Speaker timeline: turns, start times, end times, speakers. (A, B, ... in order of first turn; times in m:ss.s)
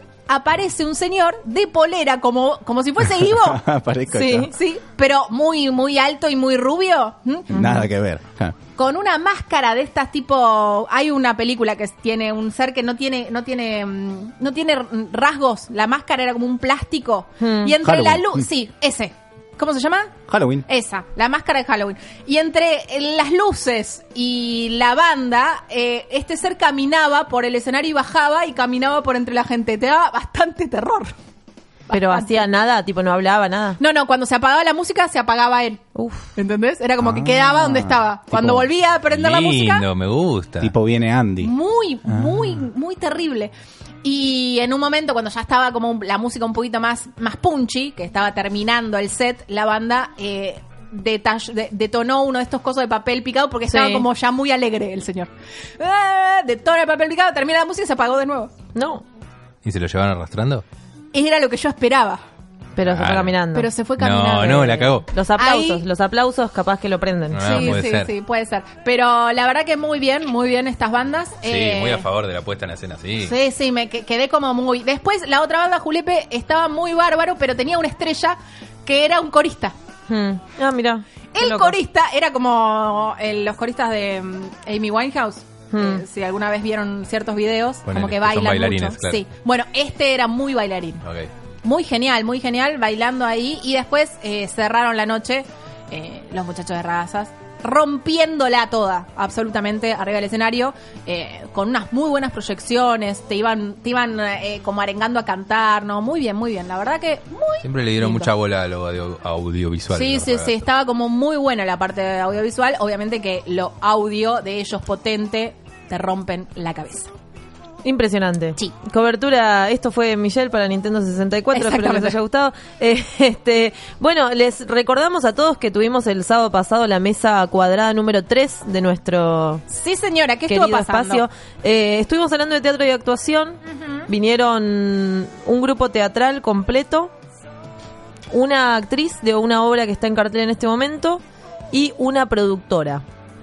0:00.3-0:07.8 A
0:03.3-0:04.5 B
0:07.5-0:08.6 B
0:08.8-0:20.1 A
0:17.4-0:17.7 C
0:17.8-0:18.4 B
0:20.3-0:20.6 B
0:20.7-0:31.1 A
0:31.9-0:32.4 A
0:31.9-0:33.8 C
0:33.8-0:35.8 A
0:35.9-0:36.3 C
0:36.4-0:39.8 A
0:37.0-0:38.6 B
0:39.1-0:40.7 D
0:40.6-0:41.5 B
0:41.4-0:43.5 A
0:42.1-0:42.4 B
0:44.0-0:58.5 A
0:53.7-0:54.0 C
0:58.7-0:59.0 C
0:59.6-1:00.6 D
1:01.1-1:02.2 A
1:02.8-1:03.7 C
1:02.8-1:03.4 D
1:03.5-1:05.8 A
1:04.0-1:05.1 D
1:04.6-1:07.8 C
1:07.3-1:08.1 D
1:07.4-1:12.0 A
1:11.4-1:13.3 D
1:13.2-1:19.7 A
1:20.1-1:21.8 C
1:21.3-1:31.0 A
1:25.7-1:26.0 C
1:27.8-1:29.2 D
1:31.6-1:48.3 A
1:47.6-1:50.6 D
1:49.9-1:57.1 A
1:57.8-2:09.6 C
2:01.5-2:02.2 A
2:09.7-2:11.2 A
2:10.5-2:17.1 C
2:13.7-2:14.0 A
2:18.3-2:23.0 C